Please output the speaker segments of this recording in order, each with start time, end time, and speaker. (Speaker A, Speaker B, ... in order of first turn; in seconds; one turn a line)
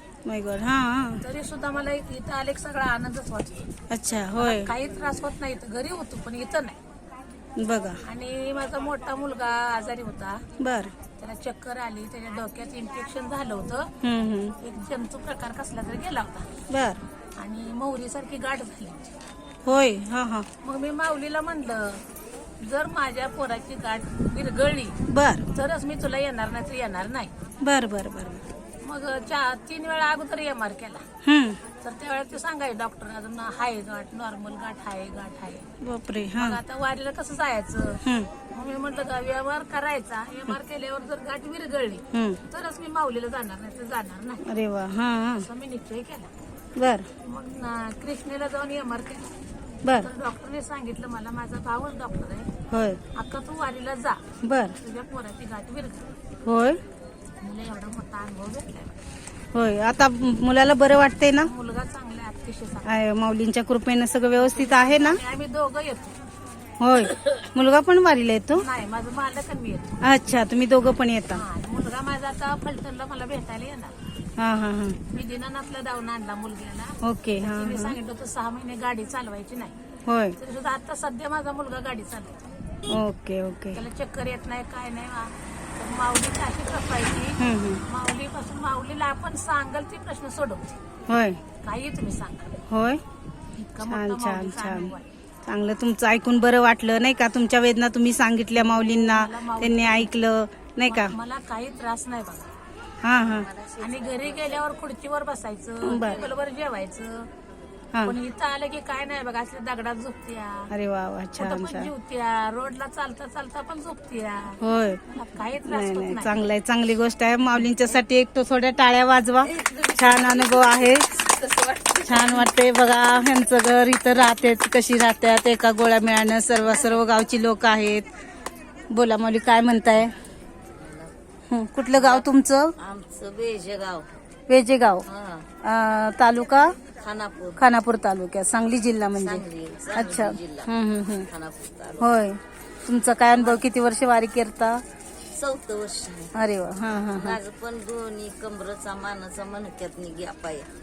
Speaker A: 0.2-1.2
Speaker B: 1.2-3.7
Speaker A: 3.9-4.7
Speaker B: 4.4-6.8
Speaker A: 7.6-8.0
Speaker B: 8.1-10.5
Speaker A: 10.6-10.9
Speaker B: 11.1-13.9
Speaker A: 14.0-14.6
Speaker B: 14.6-16.5
Speaker A: 16.7-17.0
Speaker B: 17.4-19.1
Speaker A: 19.7-20.5
Speaker B: 20.6-22.0
Speaker B: 22.6-25.0
Speaker A: 25.1-25.4
Speaker B: 25.5-27.4
Speaker A: 27.6-28.4
Speaker B: 28.8-31.1
Speaker A: 31.2-31.6
Speaker B: 31.8-35.7
Speaker A: 35.8-36.6
Speaker B: 36.4-44.5
Speaker A: 38.0-38.3
Speaker A: 42.1-42.4
Speaker A: 44.5-45.5
Speaker B: 45.4-46.3
Speaker A: 46.8-47.1
Speaker B: 47.2-49.3
Speaker A: 49.8-50.1
Speaker B: 49.9-52.5
Speaker A: 52.7-53.0
Speaker B: 53.1-54.2
Speaker A: 54.4-54.8
Speaker B: 54.8-56.2
Speaker A: 56.5-56.8
Speaker B: 57.4-59.0
Speaker A: 59.5-61.5
Speaker B: 61.4-62.9
Speaker A: 62.9-65.2
Speaker B: 64.3-66.2
Speaker A: 66.8-68.7
Speaker B: 68.5-70.0
Speaker A: 70.0-71.4
Speaker B: 71.3-74.0
Speaker A: 74.4-75.0
Speaker B: 75.1-79.7
Speaker A: 77.0-78.0
Speaker A: 80.1-80.4
Speaker B: 80.4-82.4
Speaker A: 82.9-83.8
Speaker B: 83.7-90.7
Speaker A: 87.4-87.8
Speaker A: 91.1-91.4
Speaker B: 91.6-92.6
Speaker A: 92.7-93.0
Speaker B: 93.5-95.1
Speaker A: 93.8-94.9
Speaker A: 95.5-101.1
Speaker B: 98.6-100.1
Speaker B: 100.9-102.5
Speaker A: 103.0-103.5
Speaker C: 103.1-104.8
Speaker B: 103.8-107.3
Speaker A: 105.8-106.2
Speaker C: 106.0-106.4
Speaker B: 108.0-110.7
Speaker A: 110.7-111.9
Speaker B: 111.4-116.4
Speaker A: 114.6-115.0
Speaker A: 115.7-121.1
Speaker C: 119.5-122.5
Speaker A: 122.1-128.1
Speaker A: 128.9-130.1
Speaker C: 130.7-131.1
Speaker A: 131.5-132.7
Speaker C: 131.9-134.1
Speaker A: 134.5-135.1
Speaker C: 135.1-135.5
Speaker A: 135.6-136.8
Speaker C: 136.9-137.6
Speaker A: 137.6-139.4
Speaker C: 139.2-140.7
Speaker A: 139.9-141.3
Speaker C: 141.3-142.1
Speaker A: 142.0-144.8
Speaker C: 143.3-143.6
Speaker C: 145.3-146.3
Speaker A: 146.3-147.4
Speaker C: 147.1-150.7